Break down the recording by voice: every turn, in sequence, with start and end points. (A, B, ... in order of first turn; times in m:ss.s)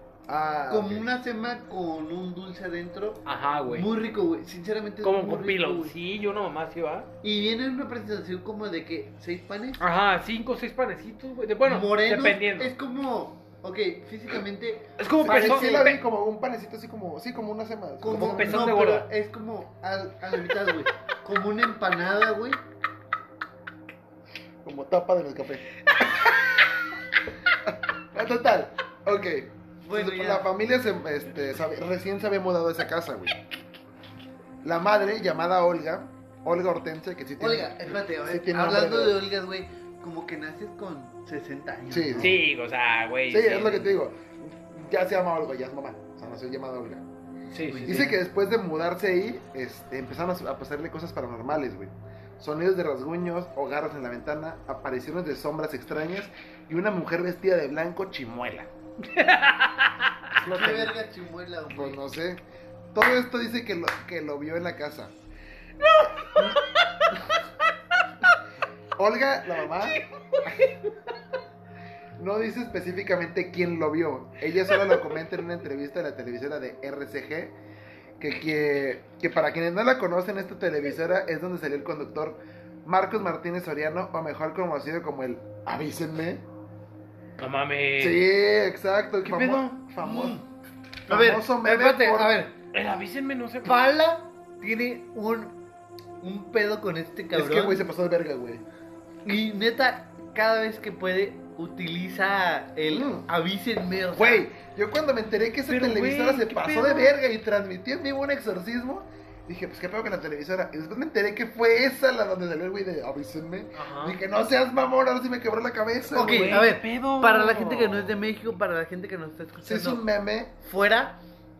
0:00.3-0:01.1 A
0:00.7-0:05.9 B
0:03.2-0:03.9 C
0:05.0-0:07.1 C
0:07.2-0:09.8 B
0:09.8-0:12.7 C
0:11.6-0:15.9 B
0:15.0-0:16.0 C
0:15.2-0:18.7 A
0:18.0-0:22.6 B
0:18.1-0:19.1 C
0:24.6-0:25.7 A
0:28.1-0:33.4 A
0:29.8-0:30.5 B
0:34.6-0:39.2 A
0:37.4-0:42.3 B
0:41.9-0:42.4 A
0:42.2-0:43.9 C
0:43.3-0:47.0 A
0:47.5-0:48.1 C
0:47.6-0:48.2 B
0:47.8-0:58.7 A
0:59.1-1:00.0 C
1:00.3-1:01.0 A
1:00.4-1:02.0 B
1:01.7-1:02.4 A
1:02.9-1:05.1 A
1:05.8-1:07.1 C
1:09.0-1:10.5 A
1:09.6-1:10.8 C
1:12.2-1:17.6 A
1:18.2-1:26.4 A
1:27.4-1:28.2 C
1:28.0-1:30.4 A
1:29.2-1:29.7 C
1:30.0-1:30.4 B
1:31.1-1:32.3 A
1:31.1-1:32.5 B
1:32.7-1:33.8 C
1:33.6-1:35.6 B
1:36.2-1:37.8 B
1:37.3-1:38.6 A
1:39.2-1:44.4 B
1:42.9-1:43.2 A
1:44.1-1:56.6 A
1:45.7-1:47.1 C
1:53.8-1:54.2 C
1:56.1-1:58.2 C
1:56.1-2:00.0 B
1:59.6-2:00.5 A
2:00.6-2:01.2 B